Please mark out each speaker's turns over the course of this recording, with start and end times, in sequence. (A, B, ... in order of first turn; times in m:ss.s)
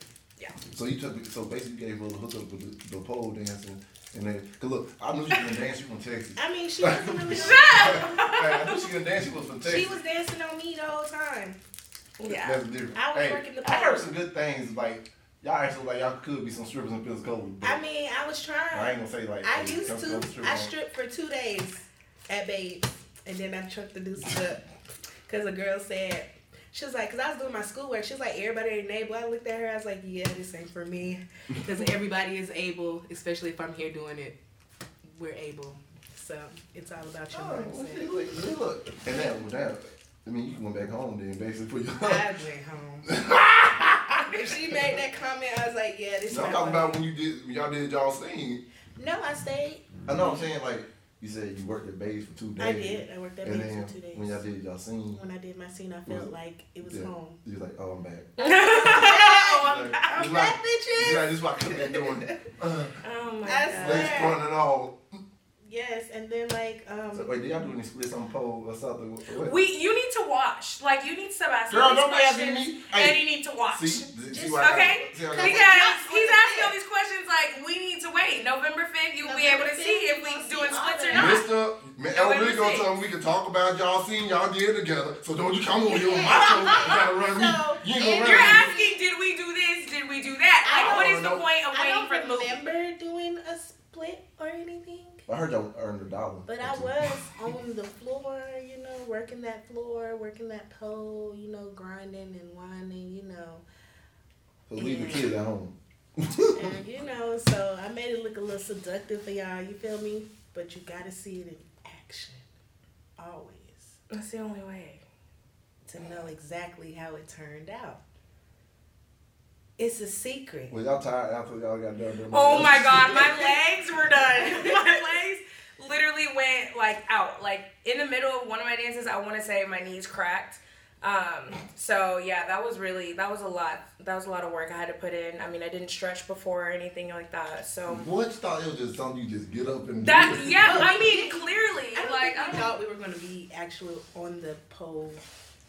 0:00.7-0:09.9 A
0:06.4-0:08.2 B
0:07.3-0:08.9 C
0:09.6-0:11.6 B
0:12.2-0:12.6 C
0:12.3-0:17.8 A
0:12.9-0:14.1 B
0:17.6-0:24.6 B
0:18.7-0:20.7 A
0:25.2-0:34.4 B
0:35.0-0:38.1 B
0:37.3-0:42.3 A
0:42.0-0:43.1 B
0:43.0-0:44.9 A
0:44.2-0:47.0 B
0:46.3-0:48.6 A
0:49.0-0:49.9 B
0:50.1-0:55.2 A
0:52.6-0:54.4 B
0:55.1-0:57.4 B
0:56.1-0:58.3 A
0:58.4-1:00.1 C
0:58.4-1:02.4 B
0:59.5-1:03.0 A
1:03.0-1:04.3 C
1:03.4-1:04.4 B
1:03.7-1:05.0 A
1:05.6-1:07.6 B
1:07.1-1:09.6 A
1:09.4-1:21.4 C
1:11.7-1:13.2 A
1:13.7-1:15.7 A
1:14.3-1:16.7 B
1:19.2-1:21.4 B
1:21.1-1:28.7 A
1:22.1-1:22.9 C
1:25.8-1:29.0 B
1:26.4-1:27.0 C
1:28.0-1:32.6 C
1:30.6-1:35.2 B
1:30.7-1:31.4 A
1:35.3-1:37.3 A
1:36.5-1:43.6 B
1:44.7-1:46.7 A
1:44.8-1:45.3 B
1:46.5-1:52.4 B
1:53.2-1:54.0 B
1:54.1-1:55.0 C
1:55.8-1:58.0 B
1:59.8-2:00.7 B
2:00.7-2:03.3 A
2:02.3-2:18.0 C
2:02.9-2:03.6 B
2:04.3-2:04.8 B
2:17.9-2:20.9 A
2:20.0-2:22.7 C
2:20.5-2:25.2 B